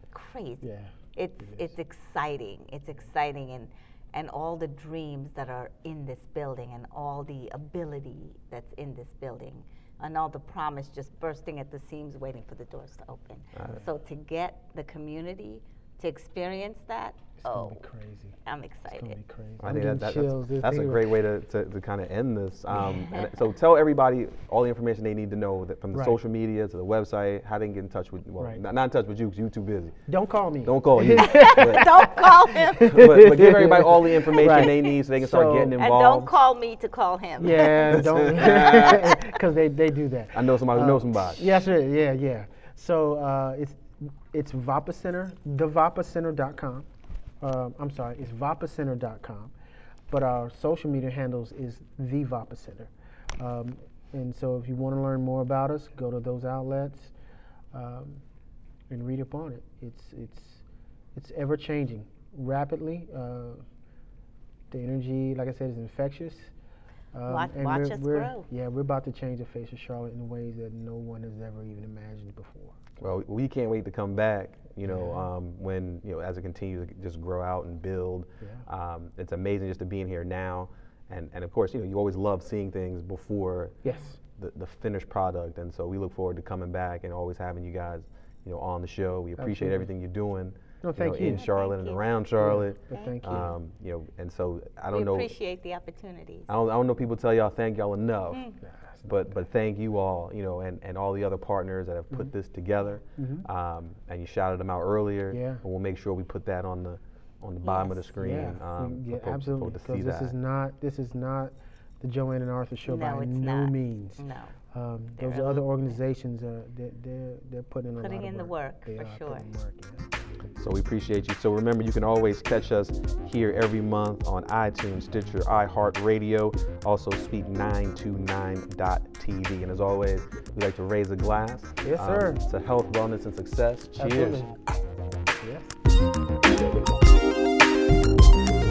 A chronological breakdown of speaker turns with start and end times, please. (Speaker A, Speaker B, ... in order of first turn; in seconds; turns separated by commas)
Speaker A: 0.1-17.8, Speaker B: 0.6-0.9, Speaker C: 13.6-13.8, Speaker B: 17.4-18.4, Speaker A: 18.4-19.2, Speaker B: 18.9-21.1, Speaker C: 19.6-30.0, Speaker A: 22.9-23.4, Speaker B: 25.9-26.2, Speaker B: 30.1-35.8, Speaker C: 30.6-32.1, Speaker A: 31.2-33.1, Speaker C: 32.9-36.4, Speaker A: 34.4-34.9, Speaker A: 35.8-37.9, Speaker B: 37.4-46.9, Speaker C: 37.6-39.3, Speaker C: 40.3-41.5, Speaker B: 47.4-49.5, Speaker B: 50.1-57.1, Speaker B: 57.7-58.2, Speaker B: 58.9-60.6, Speaker B: 61.1-63.6, Speaker B: 64.7-66.5, Speaker B: 67.1-72.8, Speaker A: 67.3-68.5, Speaker C: 73.0-95.3, Speaker B: 74.8-75.3, Speaker B: 83.8-84.2, Speaker B: 89.4-89.9, Speaker B: 90.8-91.4, Speaker A: 91.2-92.0, Speaker B: 92.4-93.6, Speaker A: 92.9-93.2, Speaker A: 94.9-96.5, Speaker C: 96.5-98.5, Speaker A: 98.3-98.6, Speaker B: 98.6-99.4, Speaker C: 99.0-110.3, Speaker B: 103.2-103.5, Speaker B: 105.3-105.6, Speaker A: 107.6-108.5, Speaker B: 108.1-120.5, Speaker A: 112.8-114.6, Speaker A: 115.2-115.9, Speaker A: 118.0-119.5, Speaker C: 120.6-134.4, Speaker B: 131.8-132.4, Speaker B: 134.0-134.7, Speaker B: 135.2-135.8